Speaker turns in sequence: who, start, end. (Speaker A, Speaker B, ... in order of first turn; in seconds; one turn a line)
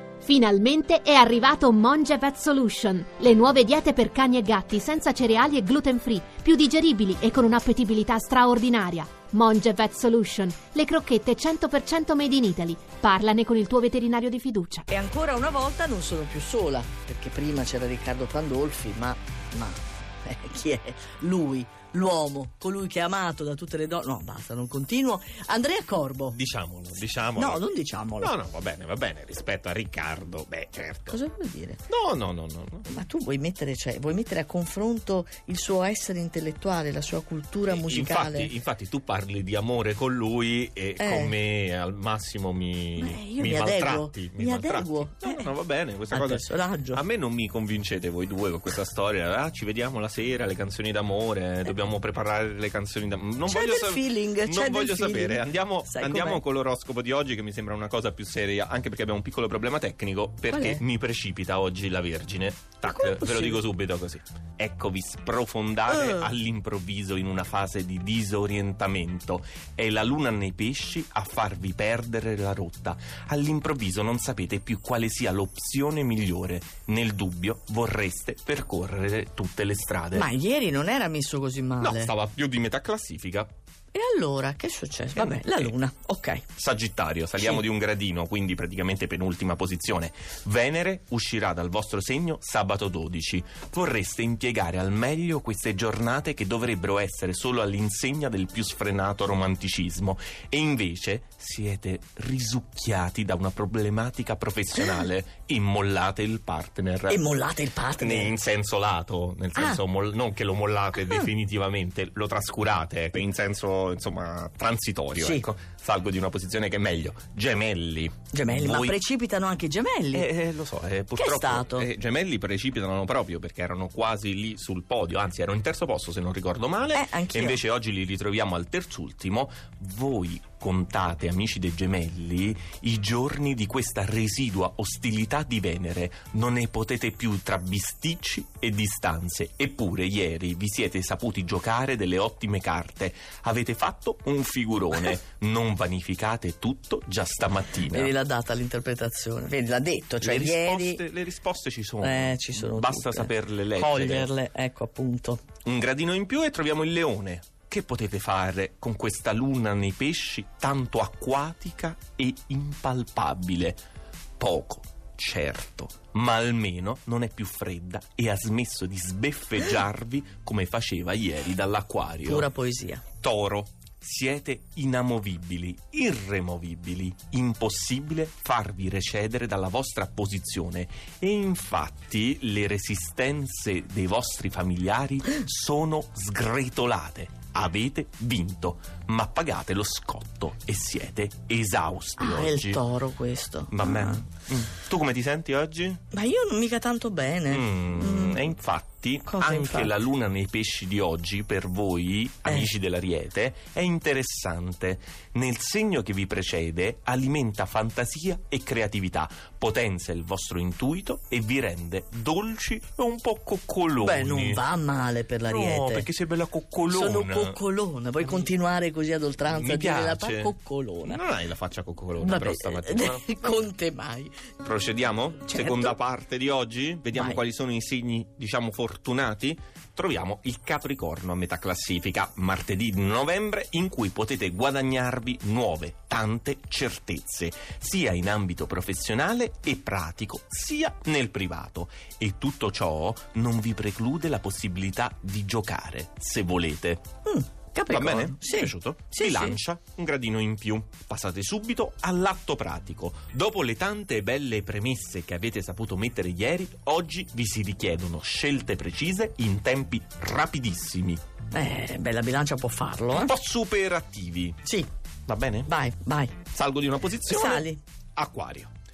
Speaker A: 0.2-14.8
Speaker B: 14.9-26.4
Speaker C: 26.3-27.6
Speaker B: 27.4-28.3
Speaker C: 28.2-31.2
Speaker B: 31.1-31.8
Speaker C: 31.9-32.9
Speaker B: 32.9-38.5
Speaker C: 37.7-80.3
Speaker B: 41.0-41.4
Speaker B: 43.0-45.5
Speaker B: 46.1-47.0
Speaker B: 53.5-56.4
Speaker B: 60.5-60.8
Speaker B: 62.9-63.6
Speaker B: 65.9-66.3
Speaker B: 80.1-82.1
Speaker C: 81.8-83.5
Speaker B: 83.9-86.4
Speaker C: 85.2-85.7
Speaker C: 86.5-107.2
Speaker B: 107.1-108.3
Speaker C: 108.0-119.0
Speaker B: 109.5-109.8
Speaker B: 115.2-115.5
Speaker B: 118.3-120.3
Speaker C: 120.1-148.1
Speaker B: 121.1-121.9
Speaker B: 126.9-127.6
Speaker B: 147.9-151.0
Speaker C: 150.2-154.3
Speaker B: 152.0-155.4
Speaker C: 155.6-163.8
Speaker C: 164.4-172.5
Speaker B: 172.2-173.0
Speaker C: 173.2-192.8
Speaker B: 192.2-194.2
Speaker C: 193.7-196.0
Speaker B: 196.1-198.5
Speaker C: 197.5-214.6
Speaker B: 199.2-200.0
Speaker B: 214.0-216.1
Speaker C: 215.4-217.6
Speaker B: 216.9-221.2
Speaker C: 218.2-218.5
Speaker C: 219.5-223.6
Speaker B: 222.2-224.5
Speaker C: 224.6-247.1
Speaker B: 225.5-226.0
Speaker B: 227.1-227.4
Speaker B: 247.2-249.6
Speaker C: 247.9-261.2
Speaker B: 261.5-263.3
Speaker C: 263.1-264.6
Speaker C: 265.3-265.7
Speaker B: 265.6-266.4
Speaker C: 266.5-268.7
Speaker B: 267.2-267.8